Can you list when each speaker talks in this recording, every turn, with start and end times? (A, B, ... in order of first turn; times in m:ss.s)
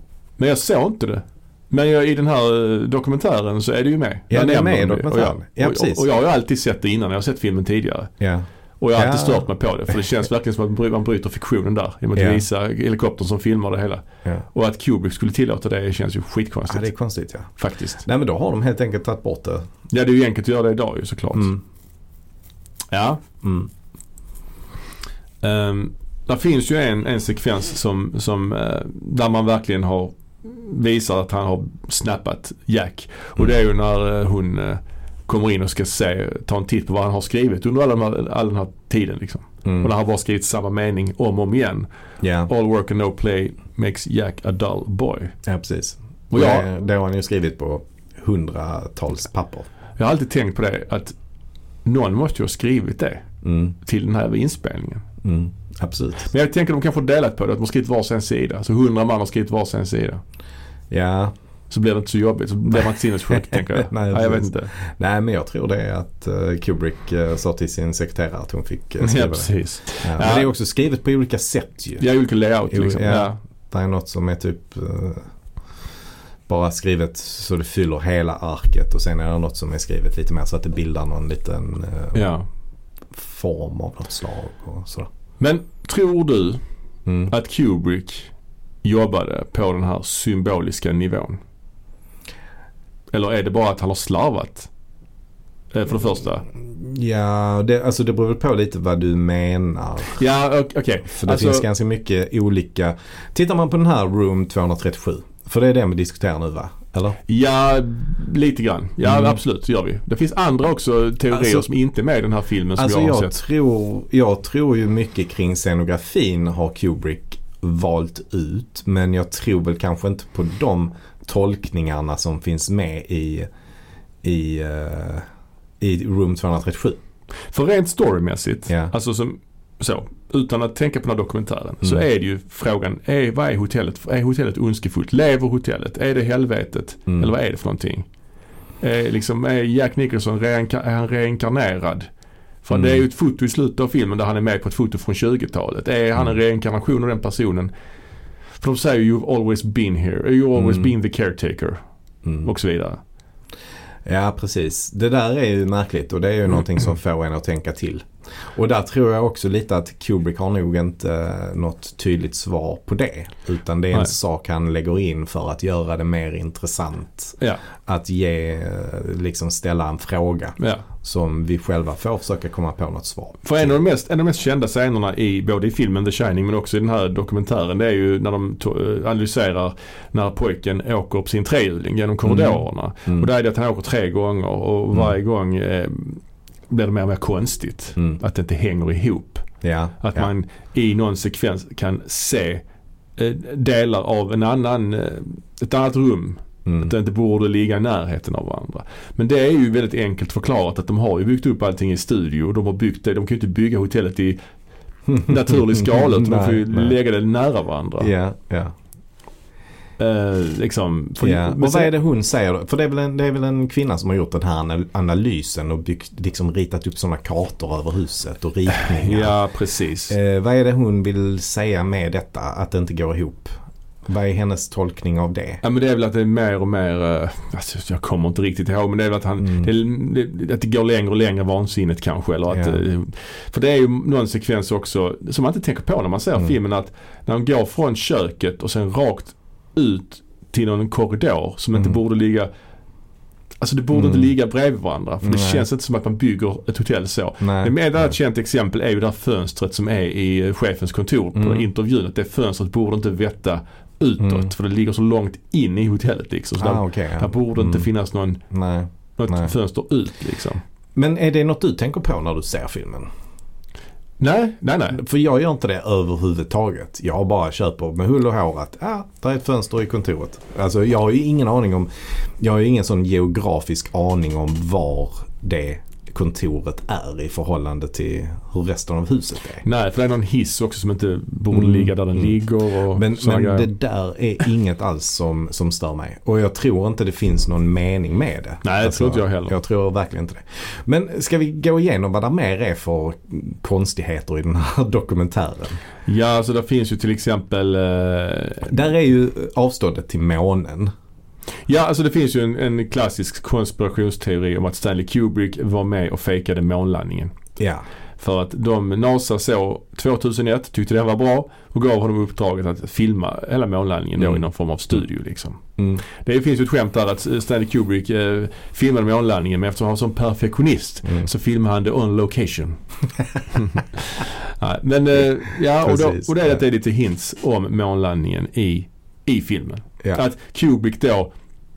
0:00.4-0:08.1 A
0:04.3-0:06.0 B
0:08.2-0:09.5 B
0:08.8-0:16.9 A
0:12.1-0:12.4 B
0:16.7-0:19.7 B
0:17.6-0:18.0 A
0:19.9-0:21.6 A
0:21.3-0:21.6 B
0:22.9-0:23.2 A
0:23.4-0:23.7 B
0:25.4-0:41.9 A
0:42.2-0:42.5 B
0:42.4-0:45.4 A
0:45.4-0:49.7 B
0:46.3-0:46.7 A
0:50.0-0:51.2 A
0:51.8-0:53.3 A
0:53.4-0:53.7 B
0:53.8-0:55.0 A
0:55.2-0:56.3 B
0:56.3-1:00.2 A
1:00.9-1:01.3 B
1:01.7-1:04.7 A
1:03.5-1:09.5 B
1:09.0-1:10.5 A
1:10.0-1:12.0 B
1:12.0-1:13.4 A
1:12.7-1:15.3 B
1:16.5-1:22.3 B
1:22.1-1:22.4 A
1:23.1-1:25.1 B
1:25.4-1:26.6 A
1:27.1-1:27.3 B
1:27.3-1:28.3 A
1:28.8-1:31.4 A
1:33.1-1:34.7 A
1:35.7-1:36.4 A
1:36.6-1:40.2 B
1:40.1-1:41.7 A
1:41.1-1:47.2 B
1:47.3-1:53.4 A
1:49.0-1:49.4 B
1:51.3-1:51.7 B
1:52.8-2:03.5 B
2:04.2-2:05.3 B
2:05.8-2:07.0 B
2:07.5-2:18.1 A
2:18.8-2:22.1 A
2:22.6-2:27.7 A
2:22.7-2:23.0 B
2:28.6-2:31.8 A
2:30.6-2:30.9 B
2:32.4-2:33.0 A
2:34.1-2:53.4 B
2:50.6-2:50.8 A
2:53.4-3:09.5 A
3:02.2-3:03.3 B
3:09.6-3:10.3 B
3:10.0-3:12.6 A
3:13.2-3:24.4 A
3:16.7-3:16.9 B
3:25.1-3:27.0 B
3:25.2-3:28.1 A
3:28.0-3:28.7 B
3:30.0-3:31.9 A
3:31.2-3:39.4 B
3:38.8-3:40.2 A
3:40.1-3:45.6 B
3:45.6-4:02.5 A
3:49.4-3:49.7 B
3:52.5-3:52.8 B
4:03.6-4:18.4 A
4:03.9-4:04.3 B
4:05.2-4:05.6 B
4:07.4-4:08.1 B
4:11.4-4:11.6 B
4:14.2-4:14.5 B
4:16.6-4:17.9 B
4:18.5-4:19.5 B
4:19.2-4:20.6 A
4:21.0-4:23.1 B
4:24.2-4:25.0 A
4:24.9-4:39.6 B
4:39.6-4:43.7 A
4:41.5-4:42.4 B
4:42.9-4:55.8 B
4:48.6-4:49.6 A
4:56.1-4:58.7 A
4:58.7-5:00.9 B
5:01.7-5:07.4 A
5:07.6-5:07.8 B
5:08.2-5:22.8 A
5:15.8-5:16.0 B
5:23.5-5:31.3 A
5:25.8-5:26.6 B